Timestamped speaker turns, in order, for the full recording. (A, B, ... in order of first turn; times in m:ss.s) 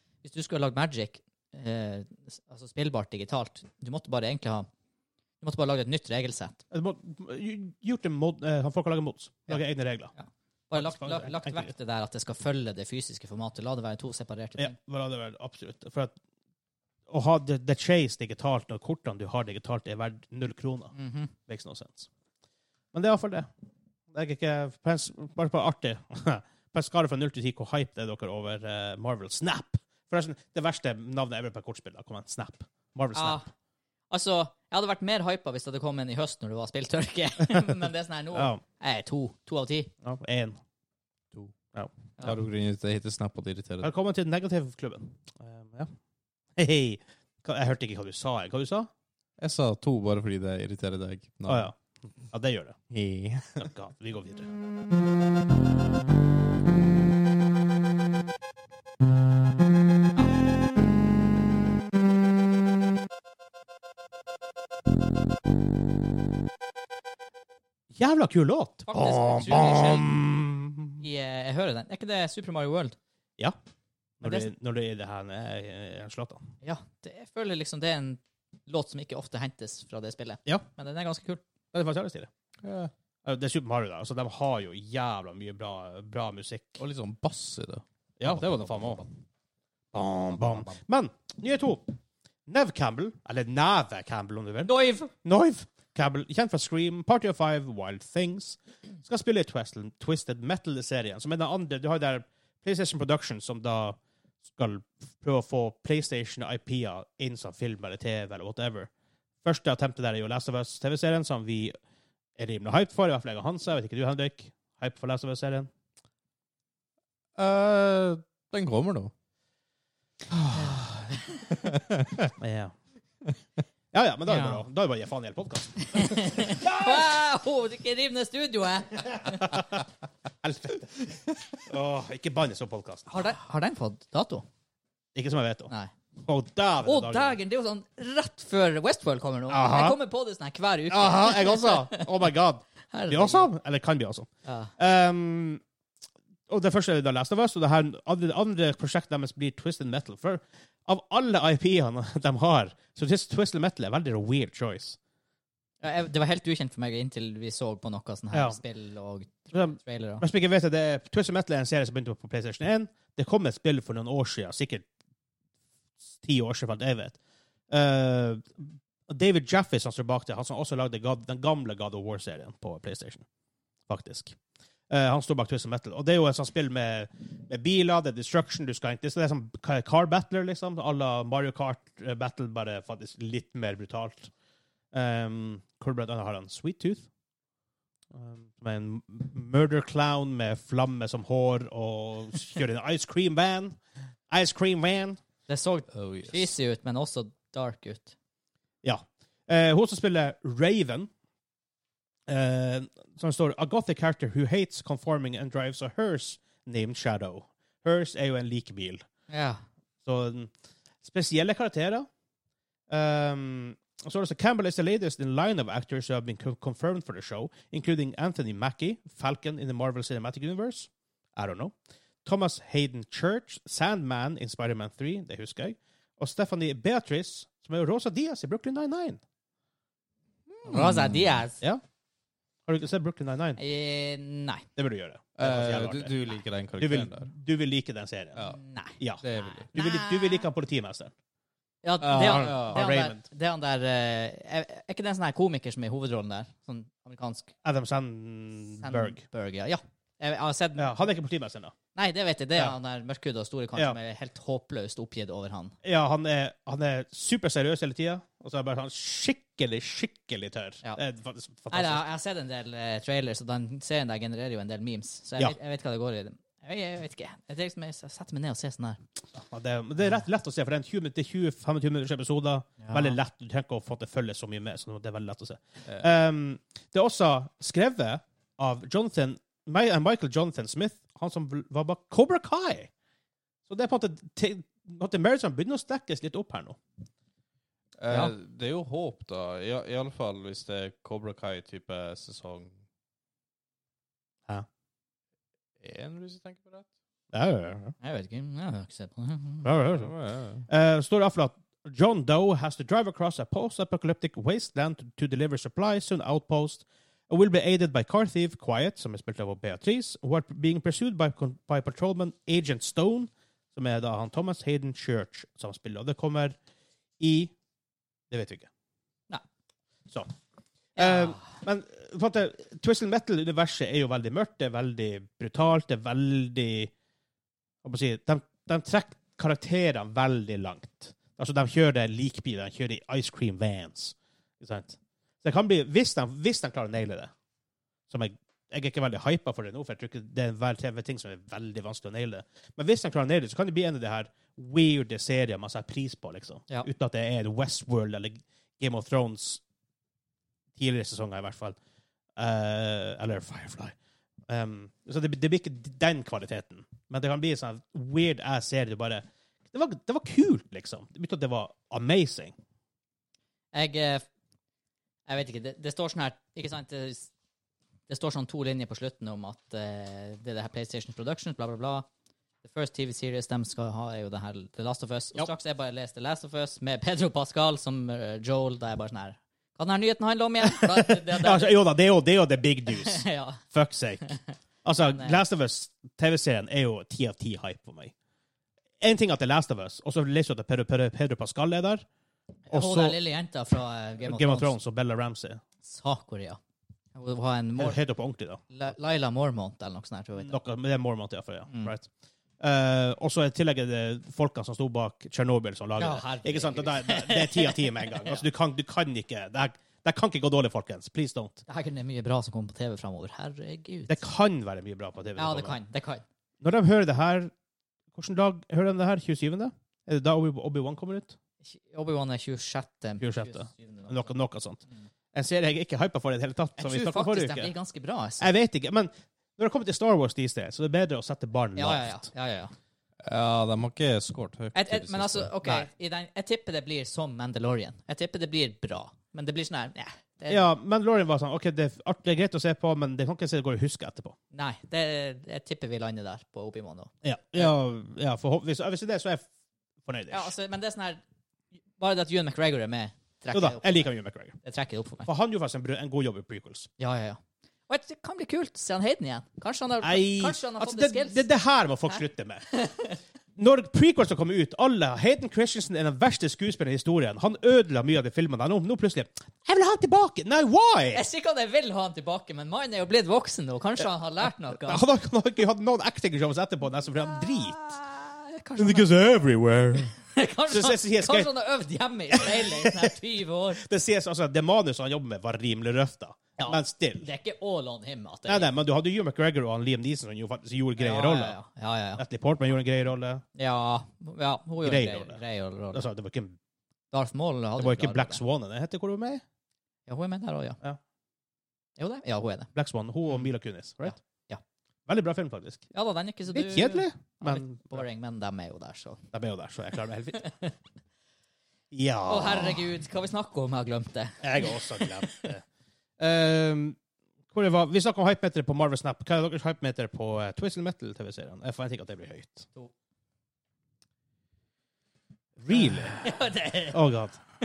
0:00.2-0:04.7 A
0:05.4-0:06.6 A
0:06.7-0:10.1 B
0:10.2-0:14.8 A
0:10.7-0:11.7 B
0:14.6-0:16.1 B
0:17.1-0:21.0 B
0:21.0-0:21.3 A
0:21.5-0:22.1 B
0:22.9-0:23.5 B
0:24.1-0:33.4 B
0:33.1-0:33.5 A
0:34.1-0:39.9 A
0:38.3-0:38.6 B
0:40.0-0:40.6 B
0:42.2-0:43.9 C
0:43.8-0:45.9 B
0:46.6-0:48.9 B
0:49.4-0:51.7 C
0:51.5-0:51.8 B
0:52.3-0:52.8 B
0:52.9-0:53.7 C
0:53.6-0:54.5 B
1:07.9-1:11.0 B
1:08.9-1:10.1 A
1:11.0-1:13.0 A
1:14.2-1:16.4 B
1:14.2-1:14.5 A
1:16.6-1:21.4 A
1:21.7-1:22.3 B
1:22.6-1:22.9 C
1:23.2-1:26.8 B
1:26.8-1:29.0 C
1:28.2-1:29.0 B
1:29.9-1:32.0 B
1:32.5-1:44.0 B
1:34.7-1:35.1 A
1:44.5-1:48.9 B
1:49.4-1:51.8 B
1:52.4-1:55.7 B
1:57.4-1:59.1 C
2:00.3-2:00.9 B
2:01.5-2:02.3 C
2:02.4-2:02.7 B
2:03.9-2:06.7 B
2:04.3-2:04.6 A
2:05.9-2:09.6 A
2:09.3-2:09.8 B
2:10.4-2:13.1 B
2:13.1-2:14.5 A
2:15.2-2:15.7 B
2:16.2-2:17.4 B
2:16.8-2:22.0 A
2:19.5-2:20.0 B
2:20.9-2:25.6 B
2:22.9-2:23.5 A
2:24.4-2:24.7 A
2:26.5-2:35.0 B
2:35.8-2:40.2 A
2:38.3-2:38.6 B
2:39.5-2:44.8 B
2:46.2-2:47.2 B
2:47.7-2:53.2 B
2:53.9-2:54.4 B
2:54.9-3:04.3 B
3:04.9-3:07.1 B
3:08.1-3:13.8 B
3:14.3-3:15.2 B
3:15.5-3:18.2 A
3:15.9-3:16.5 C
3:18.8-3:21.1 B
3:22.3-3:29.0 B
3:29.3-3:29.6 A
3:30.0-3:30.5 B
3:31.0-3:32.1 B
3:32.9-3:41.7 B
3:42.2-3:49.2 B
3:50.6-3:51.4 C
3:50.6-3:51.6 A
3:52.7-3:53.6 B
3:53.6-3:54.7 A
3:54.8-3:56.2 B
3:55.4-3:57.3 C
3:56.8-3:58.4 B
3:58.5-4:00.5 A
3:59.2-3:59.7 C
3:59.7-4:01.1 B
4:01.8-4:07.5 A
4:02.0-4:02.8 C
4:02.1-4:03.2 B
4:07.6-4:09.2 B
4:08.8-4:10.9 A
4:10.8-4:11.7 B
4:12.0-4:15.7 A
4:15.8-4:22.0 B
4:21.7-4:29.0 A
4:29.4-4:42.9 B
4:32.8-4:33.2 A
4:43.7-4:46.8 B
4:48.0-4:52.8 C
4:55.8-4:56.9 C
4:57.3-4:58.0 B
4:58.0-4:59.7 A
4:59.6-5:00.1 B
5:00.0-5:00.6 C
5:00.7-5:16.6 B
5:17.2-5:17.5 B
5:18.3-5:18.7 B
5:21.0-5:26.9 B
5:21.0-5:21.4 A
5:27.8-5:37.3 B
5:38.1-5:49.6 B
5:50.8-5:51.8 B
5:52.4-5:53.9 B
5:54.5-6:02.6 B
6:03.7-6:04.3 A
6:05.3-6:07.3 A
6:08.1-6:12.1 A
6:12.6-6:21.8 A
6:20.8-6:24.3 B
6:22.9-6:23.6 A
6:24.8-6:28.1 B
6:25.0-6:25.4 A
6:29.0-6:32.0 B
6:32.7-6:34.7 A
6:32.7-6:33.2 B
6:34.2-6:35.6 B
6:35.8-6:36.6 A
6:37.2-6:38.0 A
6:37.8-6:38.6 B
6:38.7-6:40.6 A
6:40.4-6:42.1 B
6:42.6-6:51.6 B
6:46.0-6:48.4 A
6:51.7-6:54.2 A
6:54.1-6:55.8 B
6:55.4-6:56.2 A
6:56.6-6:57.5 B
6:58.1-7:01.4 B
7:01.6-7:04.3 A
7:03.2-7:07.7 B
7:06.8-7:08.5 A
7:08.4-7:12.3 B
7:11.8-7:12.7 A
7:13.2-7:15.5 C
7:14.7-7:20.6 A
7:20.5-7:24.4 B
7:24.5-7:27.7 A
7:27.2-7:29.4 B
7:30.0-7:30.5 B
7:30.3-7:31.2 A
7:32.0-7:34.1 A
7:33.5-7:34.6 B
7:34.6-7:35.3 A
7:35.3-7:36.9 B
7:37.0-7:41.4 A
7:40.0-7:42.7 B
7:42.7-7:43.2 A
7:43.6-7:51.2 B
7:51.1-7:55.0 A
7:54.8-7:57.8 B
7:57.4-7:59.1 A
7:58.8-8:00.2 B
8:00.2-8:03.8 A
8:00.7-8:01.5 B
8:02.3-8:03.1 B
8:03.8-8:07.3 B
8:06.6-8:08.7 A
8:08.5-8:11.6 B
8:11.0-8:12.2 A
8:12.2-8:13.4 B
8:13.6-8:16.1 A
8:14.8-8:15.4 B
8:15.9-8:16.6 B
8:17.1-8:18.4 A
8:17.8-8:19.4 B
8:20.1-8:20.8 A
8:22.0-8:22.7 A
8:22.8-8:24.2 B
8:24.0-8:24.6 A
8:25.1-8:25.9 B
8:25.9-8:29.2 A
8:26.5-8:28.0 B
8:29.3-8:30.4 B
8:30.4-8:30.7 A
8:31.9-8:32.9 B
8:32.3-8:35.4 A
8:34.4-8:35.6 B
8:36.2-8:37.0 B
8:37.5-8:42.7 B
8:45.6-8:46.2 B
8:45.7-8:47.0 A
8:46.9-8:47.4 B